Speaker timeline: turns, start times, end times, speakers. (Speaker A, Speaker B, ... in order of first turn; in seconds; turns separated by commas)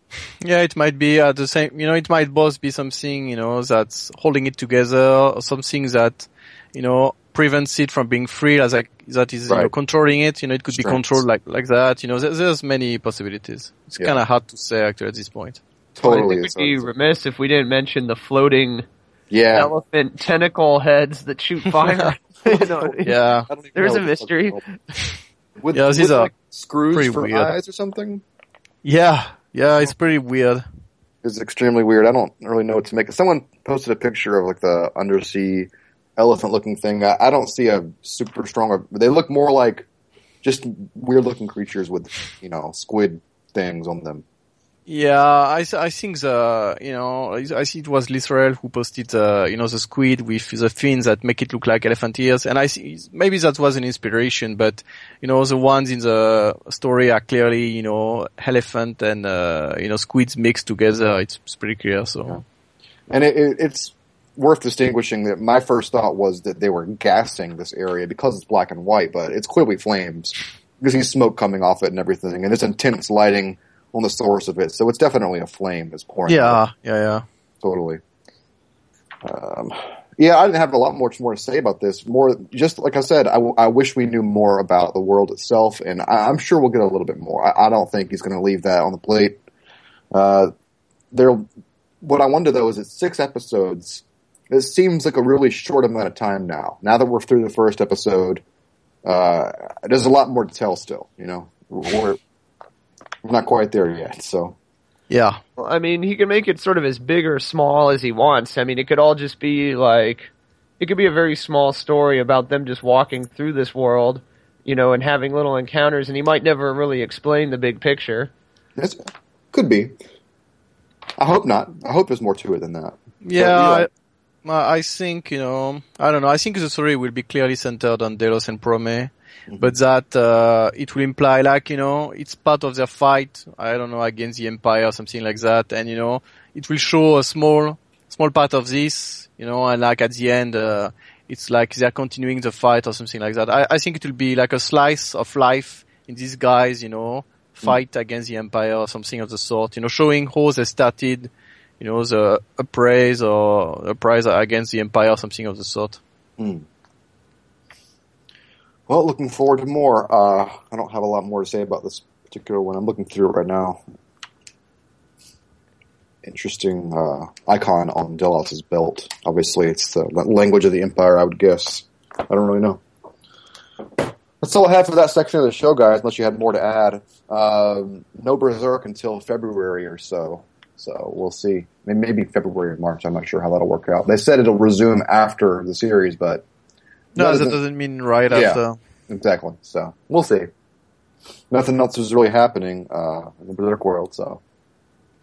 Speaker A: 0.4-15.6, Speaker B: 10.7-11.2, Speaker B: 15.9-16.9, Speaker C: 16.0-18.8, Speaker B: 19.3-19.7, Speaker C: 19.5-23.2, Speaker B: 22.4-22.9, Speaker A: 23.0-23.5, Speaker B: 23.5-24.6, Speaker C: 23.7-24.6, Speaker B: 25.6-28.2, Speaker A: 25.7-26.3, Speaker A: 26.9-27.5, Speaker A: 28.8-30.6, Speaker B: 31.2-39.9, Speaker B: 40.4-44.2, Speaker A: 44.9-62.4, Speaker B: 63.1-76.6, Speaker A: 76.3-77.2, Speaker B: 77.6-78.0, Speaker B: 79.2-89.4, Speaker B: 90.1-90.5, Speaker B: 91.1-91.4, Speaker B: 92.0-98.4, Speaker B: 99.0-102.2, Speaker B: 103.2-104.5, Speaker A: 105.1-105.4, Speaker C: 105.6-118.3, Speaker B: 118.8-119.9, Speaker B: 121.2-123.9, Speaker A: 123.2-123.9, Speaker A: 124.4-156.0, Speaker B: 129.5-129.7, Speaker B: 156.4-156.6, Speaker B: 158.9-163.8, Speaker B: 166.2-172.8, Speaker B: 174.4-186.4, Speaker B: 187.1-187.6, Speaker A: 187.2-188.8, Speaker B: 188.3-190.5, Speaker B: 191.5-194.4